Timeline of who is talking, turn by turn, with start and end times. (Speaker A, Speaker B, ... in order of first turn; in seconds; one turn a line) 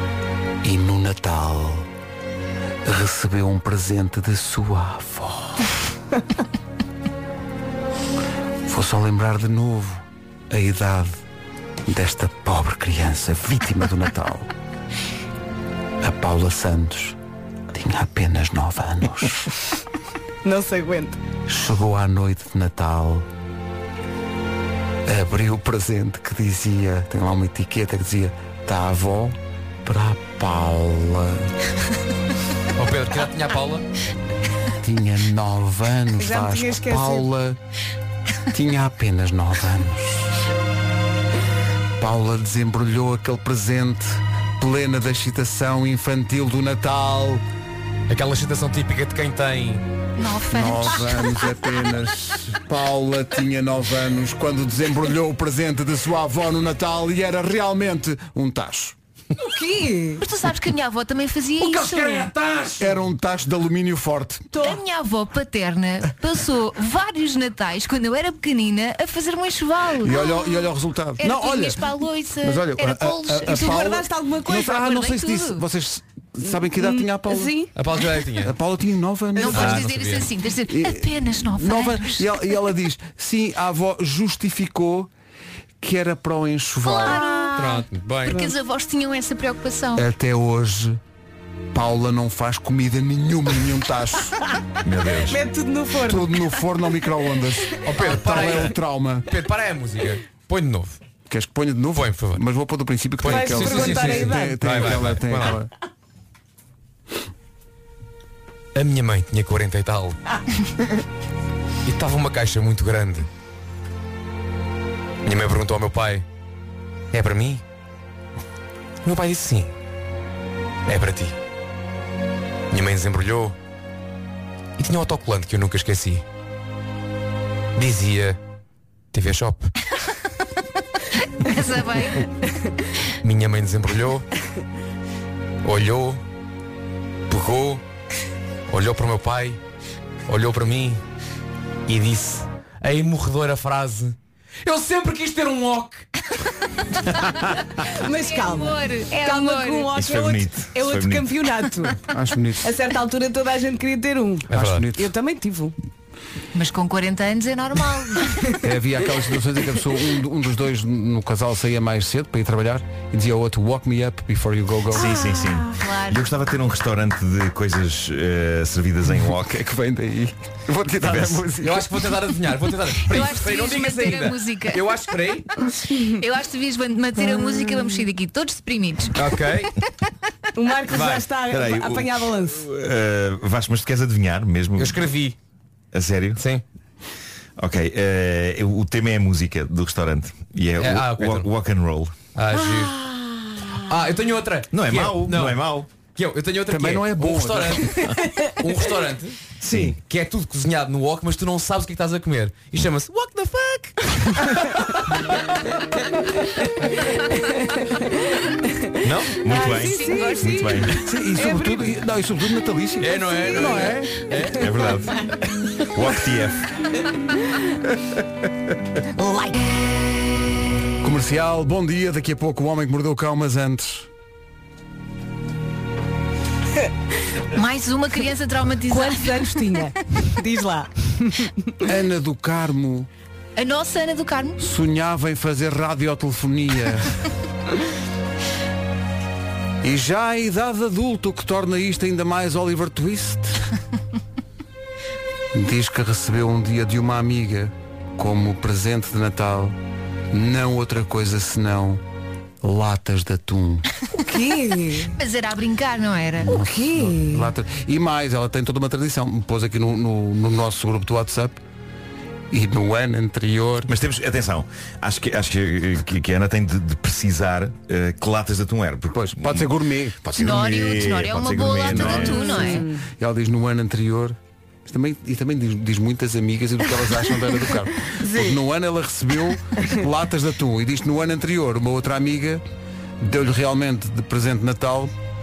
Speaker A: 0.6-1.9
Speaker A: 2.8-5.7
Speaker A: 8.7-11.2
Speaker A: 11.9-14.5
Speaker A: 16.0-17.2
Speaker A: 17.7-19.5
Speaker B: 20.4-21.2
Speaker A: 21.5-23.3
Speaker A: 25.1-31.5
Speaker C: 32.8-33.9
Speaker A: 34.8-37.6
Speaker B: 36.2-37.3
Speaker A: 38.5-40.3
Speaker A: 42.0-47.4
Speaker C: 48.1-49.8
Speaker D: 50.2-51.5
Speaker A: 50.5-59.0
Speaker B: 59.4-60.2
Speaker D: 60.2-62.3
Speaker B: 61.6-62.3
Speaker C: 62.4-62.7
Speaker A: 62.8-64.5
Speaker B: 64.5-64.8
Speaker D: 64.6-73.9
Speaker A: 70.0-71.9
Speaker A: 72.4-77.6
Speaker B: 73.5-75.0
Speaker D: 74.7-75.6
Speaker B: 76.5-77.7
Speaker C: 77.7-78.5
Speaker A: 78.4-79.9
Speaker D: 79.4-82.3
Speaker C: 79.5-80.3
Speaker A: 80.7-85.1
Speaker A: 85.8-87.2
Speaker D: 86.8-90.1
Speaker C: 87.5-88.4
Speaker A: 89.9-91.0
Speaker A: 91.7-94.4
Speaker E: 94.8-95.4
Speaker B: 95.2-96.3
Speaker A: 96.0-99.3
Speaker C: 97.8-98.7
Speaker C: 99.3-101.0
Speaker A: 101.3-105.7
Speaker C: 101.9-102.4
Speaker C: 103.2-105.6
Speaker B: 103.2-104.6
Speaker C: 108.7-110.2
Speaker C: 111.8-113.3
Speaker C: 115.2-116.2
Speaker C: 117.1-117.6
Speaker C: 119.0-119.7
Speaker C: 120.9-121.3
Speaker C: 122.7-123.5
Speaker C: 124.8-126.2
Speaker C: 127.8-128.4
Speaker C: 129.1-129.7
Speaker D: 131.4-132.3
Speaker C: 133.2-134.2
Speaker C: 135.6-136.2
Speaker C: 137.3-137.8
Speaker C: 138.7-139.6
Speaker C: 140.3-141.0
Speaker C: 141.9-146.0
Speaker B: 147.8-152.0
Speaker D: 148.0-149.9
Speaker E: 149.9-151.4
Speaker A: 152.1-152.7
Speaker B: 152.6-155.7
Speaker C: 154.5-154.8
Speaker A: 154.5-155.1
Speaker D: 156.5-158.4
Speaker A: 158.6-165.1
Speaker E: 164.9-169.6
Speaker B: 165.0-165.6
Speaker D: 165.7-166.2
Speaker A: 169.3-171.9
Speaker E: 171.0-171.5
Speaker C: 171.5-175.5
Speaker D: 173.0-174.9
Speaker D: 176.0-179.2
Speaker C: 179.1-179.7
Speaker B: 180.5-182.7
Speaker C: 180.9-181.2
Speaker E: 181.4-185.0
Speaker C: 184.8-185.3
Speaker E: 185.9-186.4
Speaker C: 186.4-186.6
Speaker E: 187.6-192.2
Speaker C: 190.8-191.5
Speaker C: 192.3-193.0
Speaker C: 193.7-204.6
Speaker E: 194.7-195.9
Speaker A: 196.7-198.0
Speaker E: 199.6-200.0
Speaker B: 207.1-208.9
Speaker E: 209.0-211.0
Speaker B: 209.4-211.9
Speaker D: 209.6-210.8
Speaker A: 211.0-214.1
Speaker C: 213.0-214.7
Speaker B: 213.5-214.0
Speaker E: 214.5-216.7
Speaker B: 219.2-219.5
Speaker A: 221.0-224.1
Speaker D: 227.5-229.8
Speaker B: 228.9-231.7
Speaker A: 231.8-233.1
Speaker D: 233.6-234.6
Speaker A: 234.6-237.2
Speaker A: 239.8-243.7
Speaker A: 245.5-249.8
Speaker A: 250.3-252.0
Speaker A: 252.6-253.8
Speaker B: 254.1-255.1
Speaker D: 255.2-256.6
Speaker A: 256.4-261.6
Speaker B: 256.4-257.5
Speaker A: 262.5-263.9
Speaker E: 263.9-272.5
Speaker A: 269.1-270.2
Speaker D: 270.4-272.8
Speaker A: 271.9-282.6
Speaker B: 272.2-273.0
Speaker B: 278.2-278.5
Speaker A: 283.2-285.1